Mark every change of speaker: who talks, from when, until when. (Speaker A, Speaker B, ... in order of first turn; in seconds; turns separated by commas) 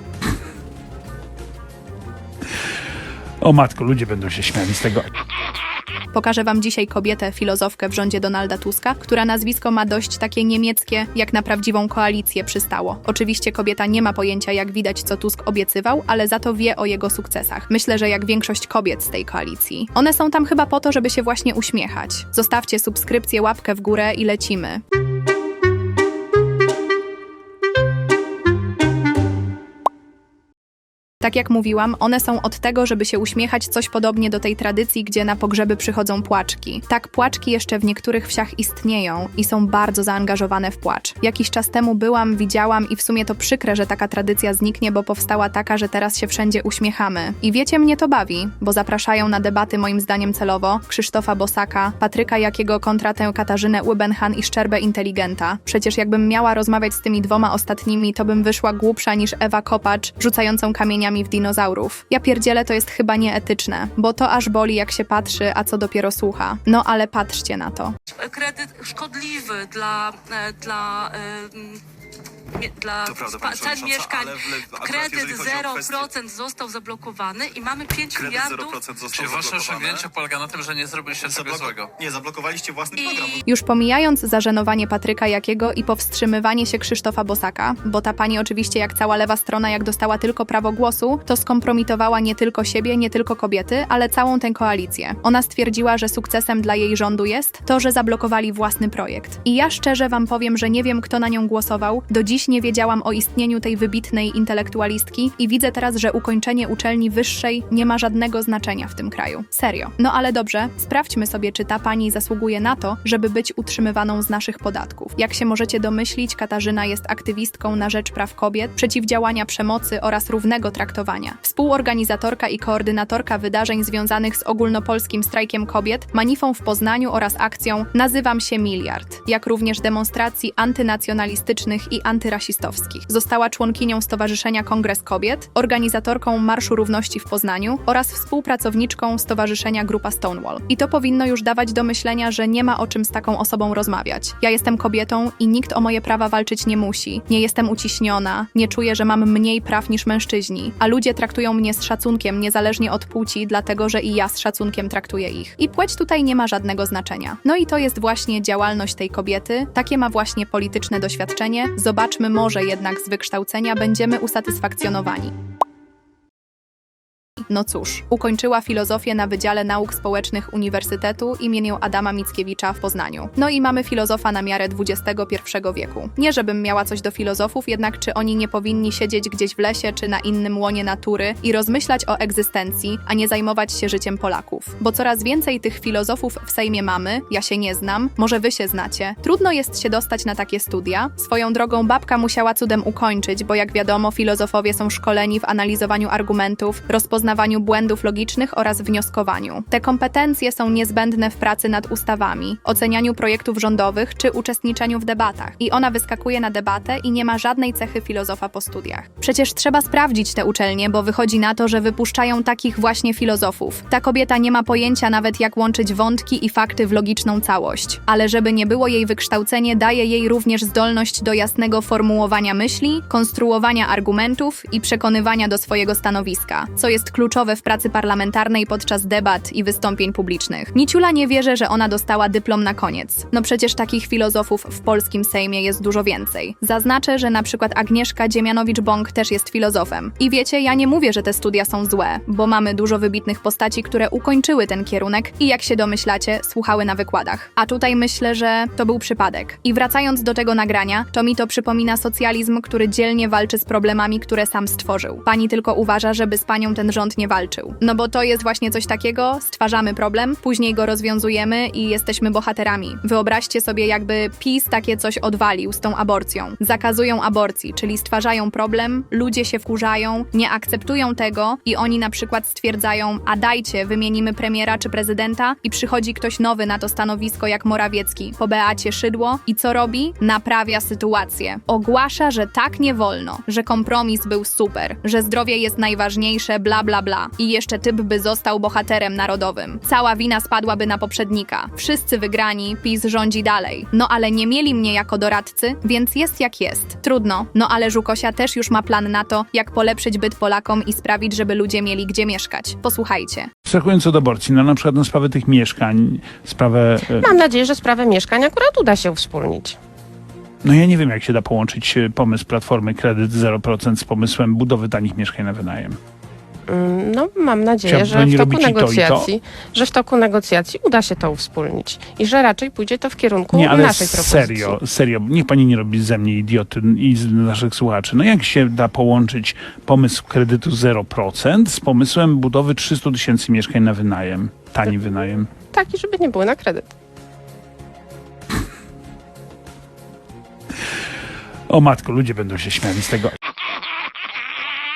Speaker A: 3.4-5.0, Speaker B: 6.1-24.8, Speaker B: 31.2-67.9, Speaker C: 68.2-71.8, Speaker C: 72.6-78.8, Speaker D: 73.0-76.1, Speaker D: 78.1-80.1, Speaker E: 79.1-81.9, Speaker D: 81.2-83.4, Speaker C: 83.0-83.4, Speaker B: 83.5-165.3, Speaker B: 167.5-303.5, Speaker A: 303.7-307.3, Speaker F: 307.1-309.8, Speaker A: 310.6-316.0, Speaker F: 316.7-324.8, Speaker A: 317.9-319.3, Speaker A: 323.5-335.5, Speaker F: 335.7-336.9, Speaker A: 341.7-343.3